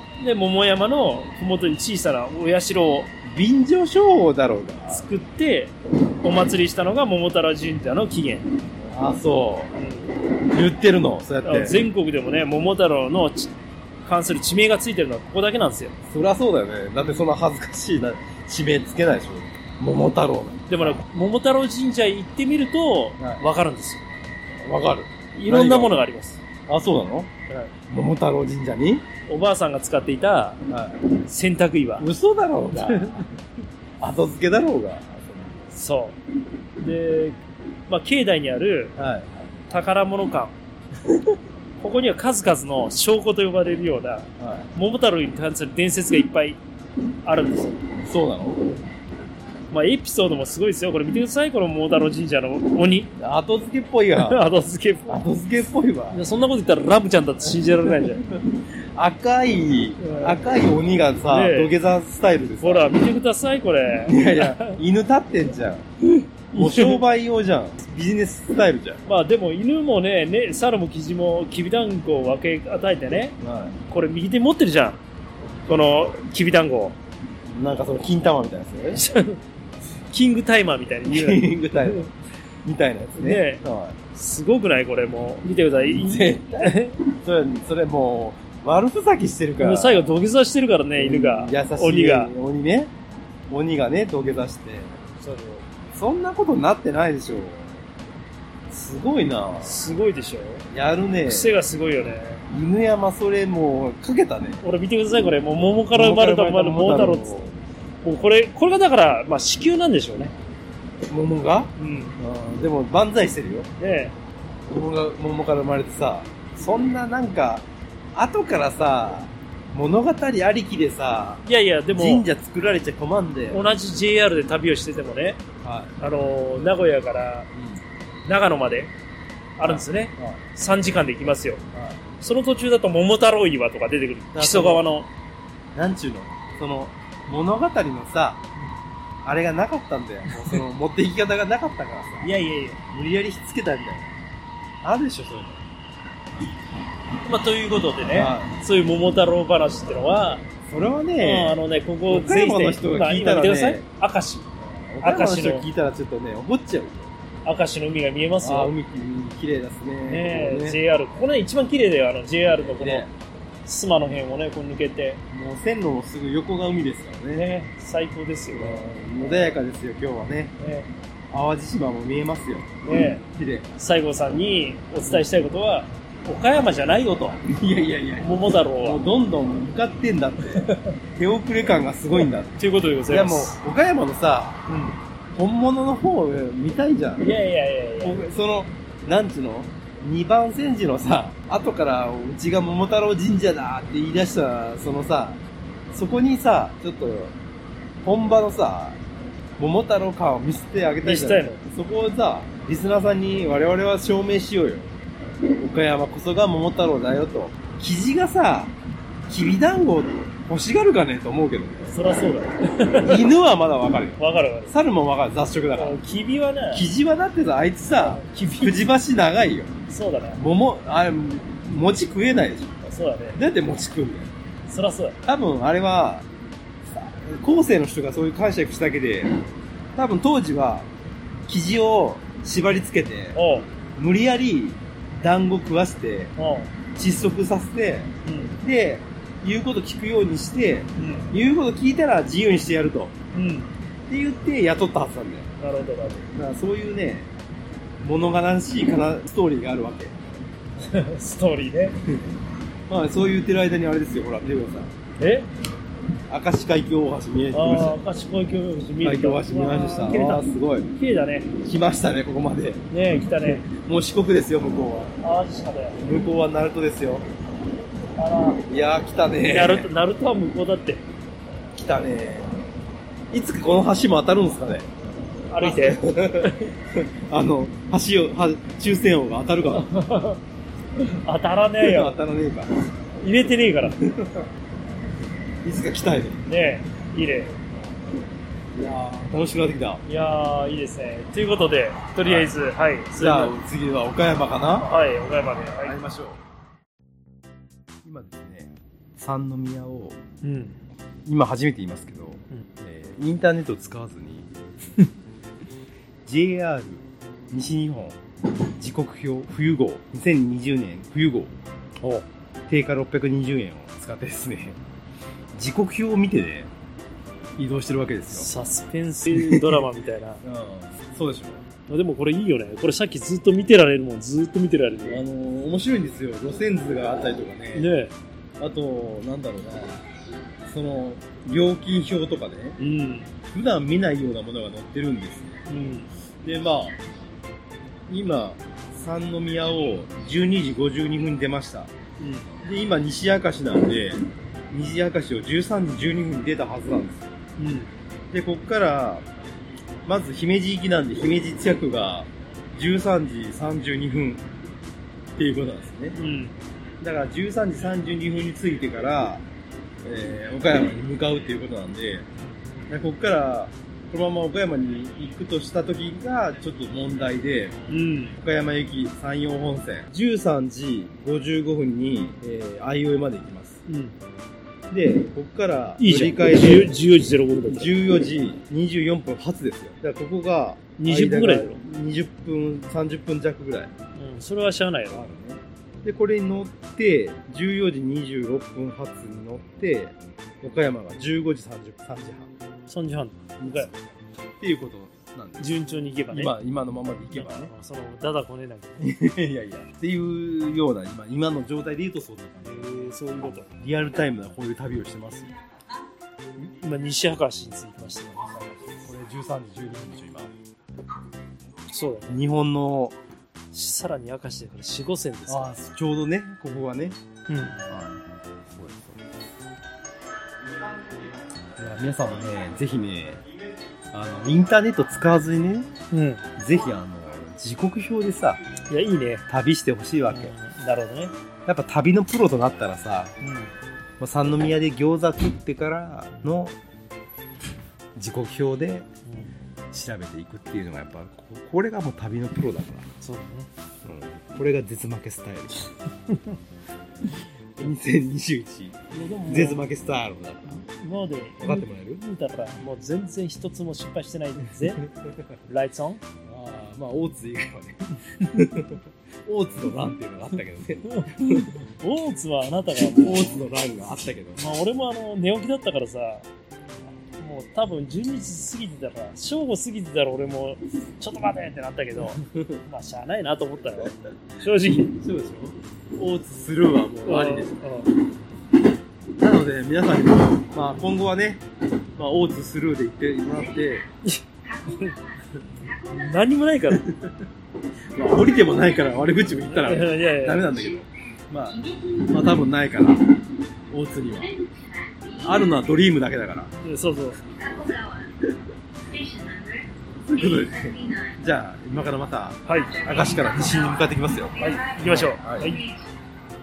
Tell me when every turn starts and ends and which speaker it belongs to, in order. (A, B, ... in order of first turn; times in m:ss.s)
0:00.2-0:03.1 A
0:03.2-0:05.1 B
0:04.9-0:08.5 A
0:08.8-0:09.8 B
0:09.8-0:10.1 A
0:10.4-0:11.8 B
0:11.4-0:13.5 A
0:14.0-0:16.0 A
0:16.1-0:21.0 B
0:20.7-0:24.1 A
0:23.2-0:23.4 B
0:24.6-0:26.0 B
0:25.4-0:26.4 A
0:26.7-0:27.3 B
0:27.9-0:29.1 B
0:29.3-0:30.6 A
0:30.7-0:31.0 B
0:31.2-0:32.1 A
0:32.0-0:33.3 B
0:32.8-0:33.3 A
0:34.0-0:35.7 B
0:35.7-0:36.2 A
0:36.8-0:39.0 A
0:39.0-0:39.4 B
0:39.7-0:40.6 A
0:41.8-0:46.6 A
0:44.4-0:44.7 B
0:47.2-0:47.9 A
0:48.0-0:48.7 B
0:49.7-0:53.1 A
0:53.2-0:54.4 B
0:54.2-0:55.2 A
0:55.1-0:56.2 B
0:56.1-0:58.2 A
0:57.6-1:02.9 B
1:00.0-1:00.5 A
1:01.3-1:01.7 A
1:02.6-1:04.8 A
1:04.1-1:05.9 B
1:06.5-1:09.0 B
1:06.5-1:07.0 A
1:09.1-1:13.4 A
1:13.4-1:13.8 B
1:13.9-1:15.0 A
1:15.7-1:17.0 A
1:17.5-1:19.0 B
1:19.0-1:19.4 A
1:20.1-1:22.1 A
1:21.1-1:22.1 B
1:22.6-1:24.0 B
1:23.2-1:27.0 A
1:26.0-1:30.1 B
1:29.6-1:32.3 A
1:31.0-1:32.9 B
1:33.5-1:35.0 B
1:35.2-1:35.6 A
1:35.9-1:37.8 B
1:38.7-1:39.8 B
1:39.6-1:40.7 A
1:40.7-1:41.6 B
1:41.3-1:42.4 A
1:42.5-1:44.6 B
1:44.6-1:47.5 A
1:45.9-1:47.6 B
1:48.0-1:50.3 A
1:51.1-1:53.7 B
1:51.8-1:52.2 A
1:53.8-1:54.1 A
1:54.7-2:03.6 B
2:01.5-2:02.2 A
2:03.5-2:05.4 A
2:05.6-2:06.0 B
2:06.0-2:07.5 A
2:07.5-2:07.8 B
2:08.2-2:08.9 A
2:09.6-2:11.6 A
2:09.6-2:10.4 B
2:11.7-2:12.0 B
2:12.2-2:15.1 A
2:14.3-2:14.8 B
2:15.8-2:18.4 B
2:19.2-2:22.4 B
2:22.2-2:22.8 A
2:22.9-2:24.1 B
2:24.8-2:25.7 B
2:27.2-2:30.4 A
2:28.1-2:28.5 B
2:30.6-2:33.9 B
2:31.2-2:34.5 A
2:34.6-2:37.1 B
2:35.0-2:35.7 A
2:37.4-2:38.7 A
2:38.4-2:40.8 B
2:40.1-2:43.1 A
2:42.6-2:43.1 B
2:43.6-2:45.2 A
2:45.3-2:47.5 B
2:47.3-2:49.6 A
2:48.5-2:50.6 B
2:50.6-2:50.9 A
2:51.3-2:52.8 B
2:52.8-2:53.2 A
2:53.3-2:53.7 B
2:53.8-2:57.4 A
2:57.4-3:04.6 B
2:58.2-2:59.0 A
3:00.6-3:01.0 A
3:02.6-3:03.6 A
3:04.7-3:05.0 A
3:05.4-3:07.3 B
3:07.2-3:08.2 A
3:08.0-3:17.4 B
3:18.0-3:19.0 B
3:19.6-3:24.9 B
3:21.0-3:21.6 A
3:25.6-3:28.8 B
3:29.3-3:31.9 B
3:31.9-3:33.3 A
3:32.9-3:36.0 B
3:34.2-3:34.7 A
3:35.7-3:36.9 A
3:36.7-3:39.7 B
3:38.0-3:38.8 A
3:39.9-3:40.4 A
3:40.4-3:44.3 B
3:42.9-3:43.4 A
3:44.7-3:45.2 A
3:45.2-3:46.3 B
3:46.8-3:49.4 B
3:50.0-3:50.9 B
3:51.5-3:53.4 B
3:53.3-3:53.7 A
3:53.9-3:56.3 B
3:56.4-3:56.7 A
3:57.0-4:03.2 B
3:58.2-3:58.6 A
4:01.0-4:01.3 A
4:03.3-4:03.7 A
4:04.1-4:05.5 B
4:05.6-4:06.3 A
4:06.3-4:07.3 B
4:08.0-4:10.2 B
4:10.8-4:12.0 A
4:12.9-4:14.9 B
4:15.2-4:15.5 A
4:16.3-4:18.0 B
4:17.5-4:21.6 A
4:19.0-4:20.9 B
4:21.6-4:22.9 B
4:22.9-4:23.7 A
4:23.5-4:25.2 B
4:25.2-4:26.0 A
4:26.0-4:27.3 B
4:28.2-4:28.6 A
4:28.7-4:29.9 B
4:29.5-4:31.0 A
4:31.8-4:32.5 B
4:33.3-4:34.9 B
4:35.5-4:36.7 A
4:35.6-4:39.9 B
4:39.7-4:40.4 A
4:41.0-4:42.2 A
4:41.8-4:42.7 B
4:43.2-4:44.0 A
4:44.0-4:44.5 B
4:45.6-4:46.5 B
4:46.5-4:47.6 A
4:48.7-4:50.0 B
4:50.0-4:53.6 A
4:52.2-4:52.5 B
4:53.2-4:54.9 B
4:54.8-4:56.0 A
4:55.8-4:56.4 B
4:58.0-5:00.2 B
5:00.4-5:00.8 A
5:01.2-5:04.6 B
5:06.2-5:08.2 B
5:08.8-5:11.6 B
5:12.0-5:12.2 A
5:12.7-5:14.8 B
5:15.5-5:16.7 B
5:17.6-5:18.5 B
5:18.3-5:20.4 A
5:19.3-5:19.8 B
5:20.4-5:21.6 B
5:21.9-5:25.2 A
5:25.1-5:27.9 B
5:27.7-5:28.1 A
5:28.6-5:30.0 B
5:30.6-5:32.8 B
5:32.8-5:33.3 A
5:33.5-5:35.6 B
5:35.7-5:36.1 A
5:36.4-5:37.0 B
5:38.1-5:41.9 B
5:42.2-5:42.5 A
5:42.6-5:47.3 B
5:47.6-5:47.9 A
5:48.3-5:49.2 B
5:50.1-5:54.5 B
5:55.4-5:56.2 B
5:56.2-5:56.6 A
5:57.0-5:59.4 B
6:00.0-6:02.3 B
6:02.9-6:07.8 B
6:07.9-6:08.4 A
6:08.4-6:13.8 B
6:13.9-6:14.2 A
6:14.9-6:17.0 B
6:16.0-6:17.9 A
6:17.7-6:23.9 B
6:21.0-6:21.8 A
6:24.2-6:25.3 A
6:25.1-6:32.5 B
6:32.9-6:33.9 A
6:33.6-6:34.0 B
6:34.6-6:35.7 B
6:35.6-6:36.5 A
6:36.3-6:37.7 B
6:37.3-6:39.0 A
6:39.0-6:42.9 B
6:42.6-6:43.7 A
6:43.7-6:45.5 B
6:46.6-6:49.0 A
6:49.0-6:50.5 B
6:51.9-6:52.3 A
6:52.3-6:53.2 B
6:53.7-6:55.7 A
6:55.5-6:57.2 B
6:57.5-6:57.8 A
6:57.9-6:59.3 B
7:01.8-7:03.4 B
7:04.1-7:05.9 B
7:06.1-7:06.4 A
7:06.6-7:08.6 B
7:08.9-7:09.4 A
7:09.5-7:10.5 B
7:10.3-7:11.3 A
7:11.7-7:13.3 B
7:13.4-7:13.7 A
7:14.2-7:16.8 B
7:18.2-7:19.1 B
7:19.3-7:19.5 A
7:19.9-7:23.1 B
7:23.2-7:23.7 A
7:24.0-7:25.9 B
7:27.8-7:30.9 B
7:29.1-7:29.8 A
7:30.7-7:35.0 A
7:31.6-7:32.2 B
7:34.8-7:35.5 B
7:35.7-7:36.2 A
7:36.5-7:41.8 B
7:41.1-7:43.6 A
7:43.1-7:44.6 B
7:44.6-7:46.5 A
7:47.4-7:55.2 A
7:52.3-7:52.8 B
7:55.0-7:57.8 B
7:57.2-7:58.1 A
7:59.4-8:01.6 B
8:02.2-8:04.1 B
8:04.2-8:05.2 A
8:06.0-8:07.1 A
8:06.9-8:07.4 B
8:08.1-8:13.4 B
8:09.7-8:10.7 A
8:13.9-8:14.6 B
8:15.4-8:16.7 B
8:16.8-8:17.4 A
8:20.2-8:25.8 B
8:22.7-8:23.0 A
8:24.6-8:25.8 A